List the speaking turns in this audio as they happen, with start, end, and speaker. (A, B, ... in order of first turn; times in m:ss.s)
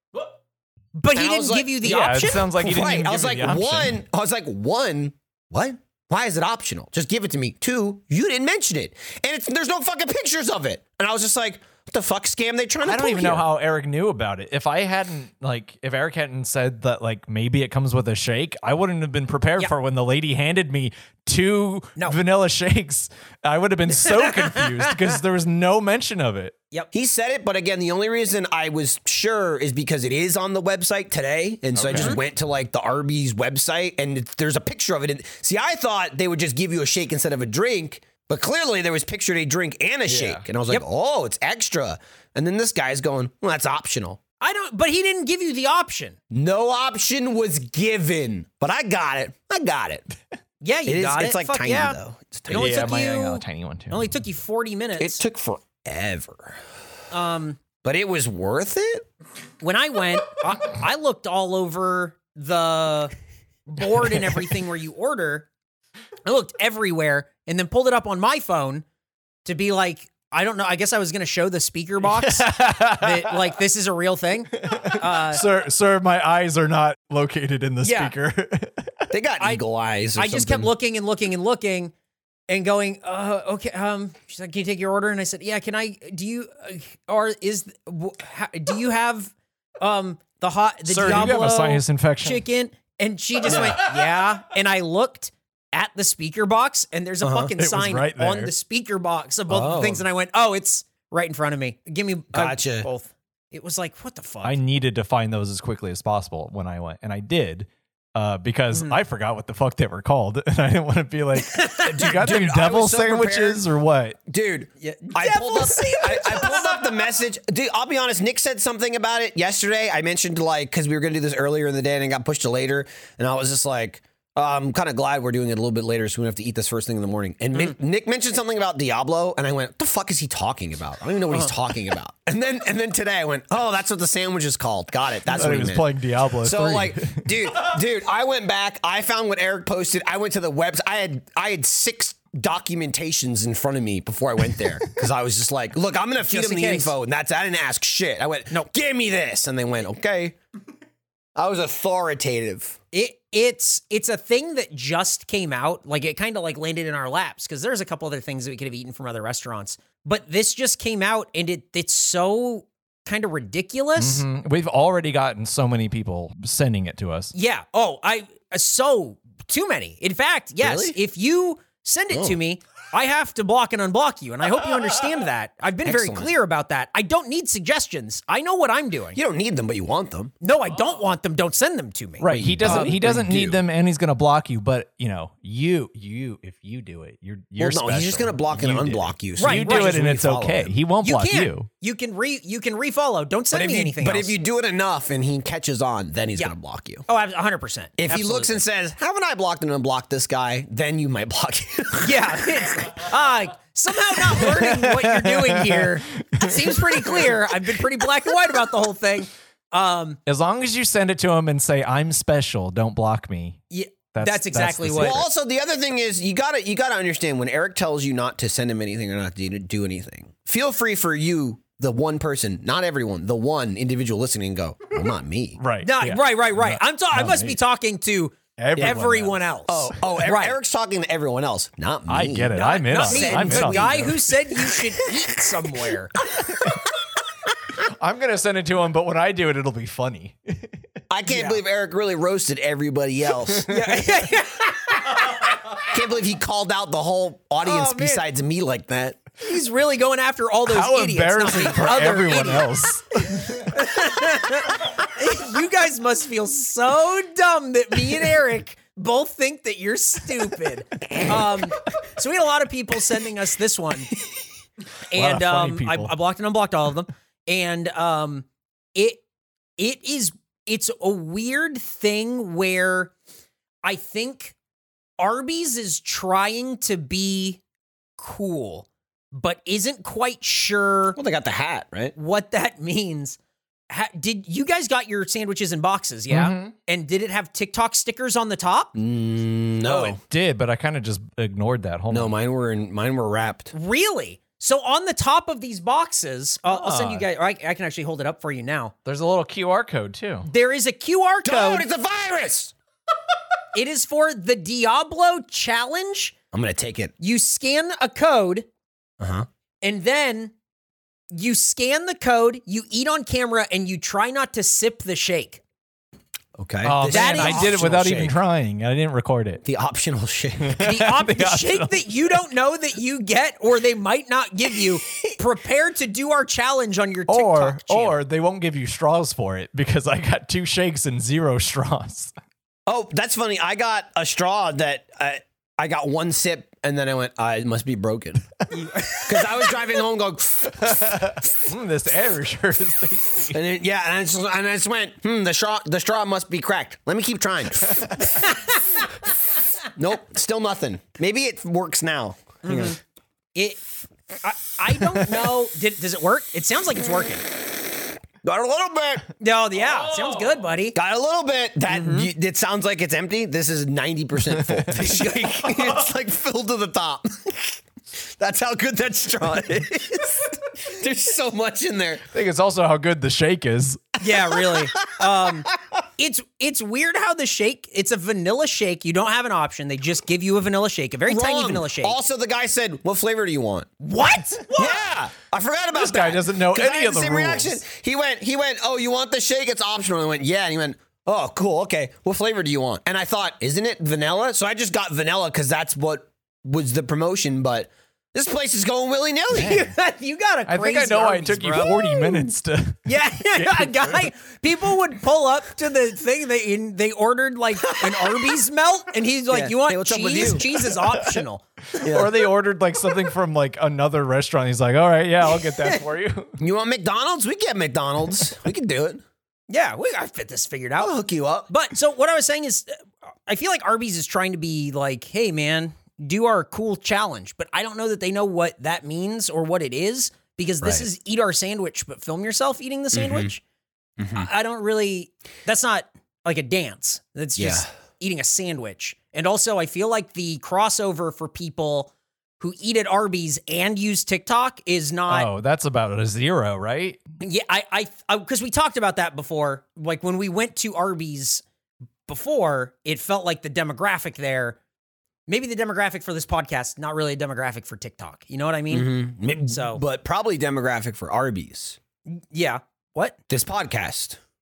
0:01.0-0:02.5 A
0:01.1-0:01.8 B
0:01.8-0:04.0 C
0:02.5-0:13.5 B
0:12.8-0:26.6 C
0:24.1-0:25.0 A
0:26.9-0:44.2 B
0:31.7-0:32.2 C
0:40.1-0:40.4 C
0:44.4-0:46.2 A
0:46.3-0:50.1 B
0:50.6-0:52.0 A
0:50.9-0:52.8 B
0:52.5-0:55.2 A
0:52.5-0:54.1 C
0:55.0-0:56.6 B
0:57.1-0:57.6 A
0:57.8-0:59.0 B
0:59.6-1:03.1 A
1:03.7-1:05.5 A
1:06.2-1:08.8 A
1:09.4-1:15.4 A
1:12.1-1:13.4 C
1:14.6-1:19.1 C
1:17.8-1:18.1 A
1:19.1-1:20.7 B
1:20.2-1:21.9 A
1:22.5-1:44.6 A
1:30.9-1:32.4 C
1:33.4-1:33.8 B
1:37.2-1:37.5 B
1:37.6-1:38.5 C
1:39.5-1:40.0 B
1:42.3-1:42.9 B
1:44.4-1:54.2 C
1:48.7-1:49.0 A
1:51.4-1:52.2 A
1:51.8-1:53.6 B
1:54.3-2:15.9 B
1:54.8-1:57.0 A
2:15.3-2:17.3 C
2:16.4-2:30.4 B
2:26.3-2:26.9 A
2:31.4-2:32.8 B
2:32.9-2:44.2 A
2:44.0-2:47.3 C
2:47.3-2:59.2 A
2:50.6-2:51.0 B
2:52.1-2:52.4 B
2:55.8-2:56.3 B
2:59.2-3:00.3 B
3:00.4-3:03.0 A
3:02.2-3:11.7 C
3:02.3-3:03.6 B
3:07.6-3:10.8 B
3:09.4-3:10.0 A
3:11.0-3:14.4 A
3:13.5-3:17.1 B
3:17.1-3:18.6 A
3:18.0-3:22.7 B
3:22.0-3:30.2 A
3:24.4-3:27.4 C
3:30.3-3:35.2 C
3:33.7-3:35.2 A
3:35.0-3:45.6 B
3:45.6-3:47.6 C
3:45.8-3:50.6 A
3:48.6-3:49.4 C
3:49.7-3:54.3 B
3:52.1-3:54.1 C
3:52.5-3:56.2 A
3:57.8-4:00.8 C
4:01.1-4:03.7 B
4:01.3-4:01.6 A
4:03.7-4:05.3 A
4:05.8-4:09.2 B
4:07.6-4:08.2 A
4:09.4-4:24.1 A
4:10.7-4:13.7 C
4:25.1-4:29.2 A
4:25.1-4:26.1 C
4:29.8-4:33.1 A
4:33.8-4:34.6 A
4:35.2-4:37.6 A
4:38.2-4:41.2 A
4:41.2-4:42.2 B
4:42.2-4:43.4 A
4:43.9-4:48.9 A
4:46.3-4:46.7 C
4:49.0-4:50.2 B
4:49.9-4:50.2 A
4:50.2-4:52.3 C
4:52.1-4:53.7 B
4:53.7-4:58.9 A
4:56.7-4:57.2 C
4:59.1-5:00.5 C
5:00.4-5:01.9 A
5:01.4-5:02.7 B
5:03.7-5:06.4 A
5:06.5-5:07.1 B
5:07.2-5:08.7 A
5:09.2-5:09.5 B
5:09.8-5:10.5 A
5:11.3-5:15.6 A
5:16.6-5:18.4 B
5:16.8-5:19.6 C
5:17.1-5:17.7 A
5:19.6-5:20.8 B
5:20.6-5:22.0 C
5:20.8-5:28.2 A
5:27.3-5:32.3 C
5:32.9-5:38.5 B
5:38.7-5:39.8 A
5:39.2-5:41.4 B
5:40.9-5:43.6 C
5:43.5-5:48.2 B
5:48.3-5:49.0 A
5:50.0-5:53.0 B
5:52.6-5:53.0 A
5:53.6-5:53.8 A
5:54.4-5:57.5 A
5:58.4-5:59.3 B
5:59.4-6:01.0 A
6:00.9-6:12.2 B
6:01.9-6:02.3 A
6:05.0-6:05.8 A
6:12.3-6:14.0 C
6:14.2-6:22.2 A
6:14.3-6:15.8 B
6:21.3-6:23.9 B
6:24.0-6:25.0 A
6:24.6-6:39.8 B
6:25.9-6:27.8 C
6:39.5-6:42.5 A
6:40.7-6:44.2 C
6:43.1-6:51.6 A
6:49.5-6:50.9 B
6:52.0-6:56.6 C
6:52.0-6:52.4 B
6:55.7-6:56.0 A
6:56.6-6:59.2 B
6:59.7-7:01.2 A
7:01.0-7:01.7 B
7:01.7-7:13.6 A
7:13.1-7:13.5 B
7:14.2-7:14.5 B
7:14.3-7:25.5 A
7:17.6-7:17.9 B
7:25.3-7:27.2 C
7:27.4-7:31.6 A
7:32.3-7:34.8 A
7:35.5-7:40.0 A
7:38.9-7:42.0 B
7:42.3-7:43.4 A
7:43.5-7:44.4 B